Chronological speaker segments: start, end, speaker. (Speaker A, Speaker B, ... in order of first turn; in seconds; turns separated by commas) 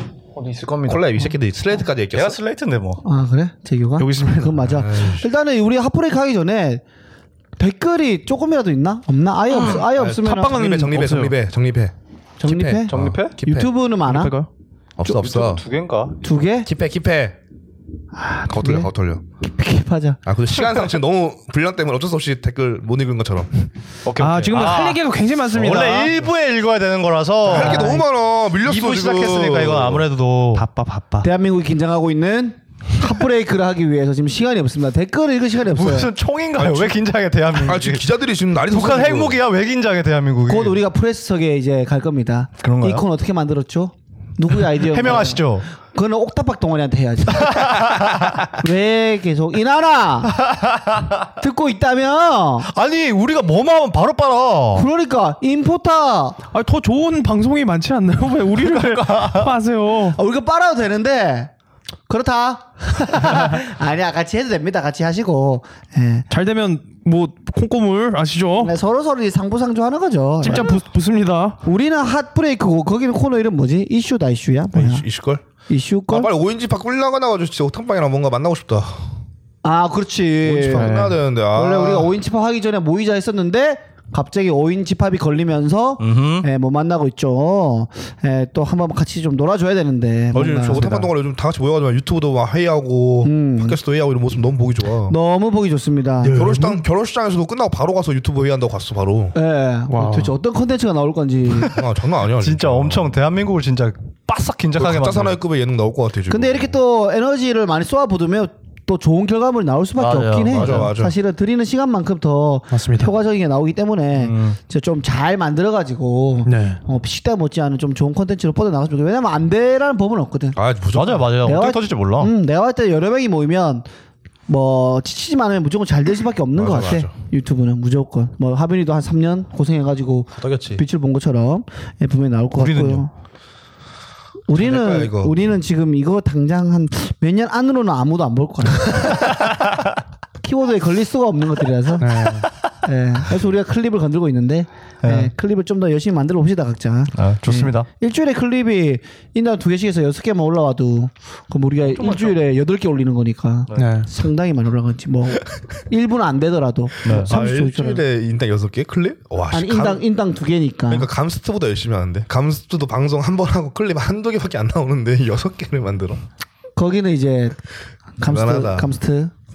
Speaker A: 0.3-1.0, Speaker B: 0.9-2.4, Speaker A: 2.1-3.0, Speaker C: 3.0-6.8, Speaker D: 4.0-4.8, Speaker B: 4.7-5.3, Speaker C: 7.6-10.6, Speaker D: 9.5-11.3, Speaker B: 10.4-11.9, Speaker C: 12.4-14.3, Speaker B: 12.4-13.7, Speaker A: 12.9-13.3, Speaker D: 14.0-14.5, Speaker B: 15.0-15.6, Speaker A: 15.0-16.2, Speaker C: 16.2-16.7, Speaker B: 16.6-17.4, Speaker C: 18.2-18.9, Speaker B: 18.5-19.2, Speaker C: 19.5-20.2, Speaker B: 20.2-23.7, Speaker A: 24.0-28.0, Speaker D: 24.2-26.1, Speaker B: 27.5-30.0, Speaker C: 27.5-28.0, Speaker A: 28.6-30.6, Speaker D: 30.5-31.3, Speaker C: 31.2-36.1, Speaker A: 35.7-38.0, Speaker B: 36.6-37.0, Speaker B: 37.5-39.4, Speaker A: 38.6-40.8, Speaker C: 40.5-48.0, Speaker A: 42.6-43.0, Speaker A: 44.7-45.7, Speaker A: 47.5-48.3, Speaker C: 48.5-50.4, Speaker A: 50.3-51.3, Speaker C: 51.4-52.7, Speaker A: 52.6-54.9, Speaker C: 54.7-56.4, Speaker D: 56.5-60.2, Speaker A: 58.5-59.5, Speaker C: 60.1-61.5, Speaker C: 62.1-66.2, Speaker D: 66.3-68.7, Speaker C: 68.6-70.8, Speaker D: 70.4-71.6, Speaker C: 71.6-75.0, Speaker B: 74.7-75.4, Speaker C: 75.7-76.3, Speaker B: 76.1-79.0, Speaker C: 79.6-81.0, Speaker B: 80.4-82.1, Speaker D: 80.7-81.2, Speaker C: 81.5-91.0, Speaker A: 86.0-86.5, Speaker B: 90.3-95.2, Speaker A: 90.6-91.1, Speaker C: 93.2-93.8, Speaker C: 95.1-96.8, Speaker B: 96.2-99.3, Speaker C: 99.3-101.8, Speaker D: 99.9-100.3, Speaker B: 101.7-103.1, Speaker A: 102.4-105.4, Speaker B: 104.8-106.7, Speaker C: 106.3-120.6, Speaker A: 110.0-110.9, Speaker B: 110.5-111.1, Speaker D: 112.7-113.1, Speaker A: 114.2-114.6, Speaker D: 116.5-116.8, Speaker B: 120.5-121.3, Speaker A: 120.9-122.3, Speaker C: 121.4-123.8, Speaker C: 124.5-133.1, Speaker B: 126.5-127.1, Speaker B: 130.4-130.8, Speaker A: 132.6-133.1, Speaker C: 134.5-139.3, Speaker B: 134.6-135.3, Speaker A: 139.3-139.9, Speaker C: 140.4-142.3, Speaker D: 142.0-142.5, Speaker C: 142.8-158.0, Speaker A: 145.0-145.3, Speaker A: 147.1-147.9, Speaker A: 151.8-152.4, Speaker D: 153.8-154.1, Speaker A: 157.0-157.3, Speaker B: 157.1-160.0, Speaker C: 159.5-161.1, Speaker B: 160.9-166.2, Speaker C: 166.8-167.6, Speaker C: 168.2-169.3, Speaker B: 168.2-168.9